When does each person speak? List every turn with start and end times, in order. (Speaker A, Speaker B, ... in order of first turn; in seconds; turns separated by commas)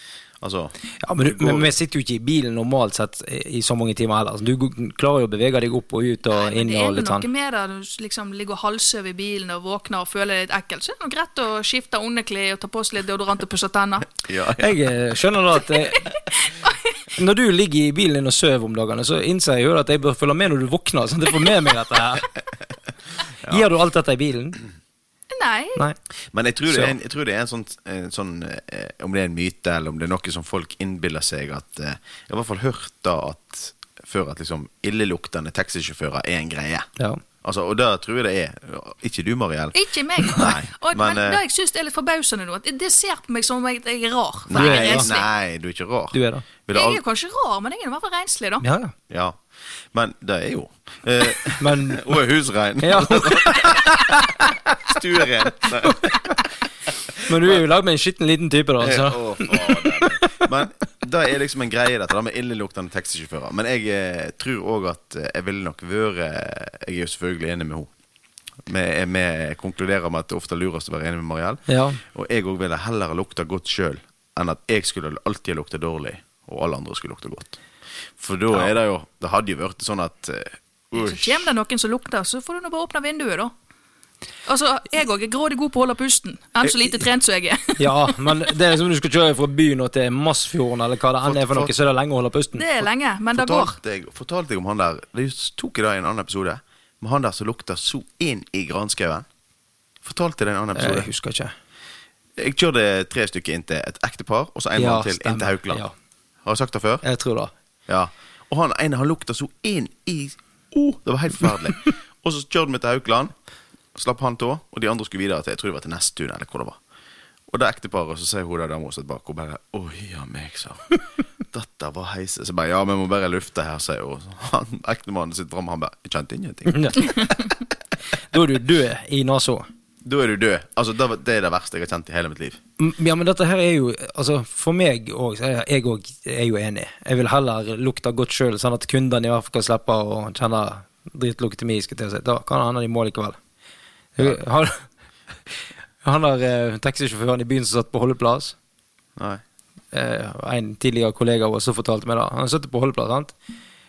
Speaker A: 0.4-1.7, Speaker B: 1.0-7.2, Speaker C: 6.3-14.1, Speaker A: 14.2-14.8, Speaker B: 14.6-16.2, Speaker C: 15.9-17.0, Speaker B: 17.1-22.3, Speaker B: 23.4-24.6, Speaker C: 25.3-25.8, Speaker A: 26.3-36.9, Speaker A: 37.4-41.4, Speaker C: 39.7-45.3, Speaker A: 44.5-47.0, Speaker B: 44.5-45.1, Speaker B: 46.1-46.4, Speaker C: 46.7-48.6, Speaker B: 48.6-48.9, Speaker A: 49.1-49.4, Speaker A: 49.9-54.3, Speaker B: 51.6-52.1, Speaker B: 52.8-54.6, Speaker A: 54.8-56.4, Speaker B: 55.9-56.4, Speaker A: 57.1-57.6, Speaker B: 57.2-60.5, Speaker A: 58.8-67.9, Speaker A: 68.6-77.6, Speaker B: 71.7-72.0, Speaker A: 78.2-81.5, Speaker C: 80.9-83.5, Speaker C: 84.5-88.2, Speaker B: 87.8-92.7, Speaker A: 91.2-91.7, Speaker C: 92.6-93.8, Speaker A: 93.3-99.2, Speaker A: 100.0-101.1, Speaker B: 100.7-101.5, Speaker A: 102.4-105.8, Speaker B: 104.8-105.9, Speaker A: 106.4-107.0, Speaker B: 107.0-107.5, Speaker A: 107.9-113.3, Speaker A: 113.9-116.8, Speaker A: 117.5-121.0, Speaker A: 121.5-127.3, Speaker B: 126.7-127.3, Speaker B: 128.3-129.7, Speaker A: 130.0-132.6, Speaker B: 132.8-143.4, Speaker B: 144.2-144.8, Speaker B: 146.0-148.6, Speaker A: 149.2-149.4, Speaker B: 149.9-153.3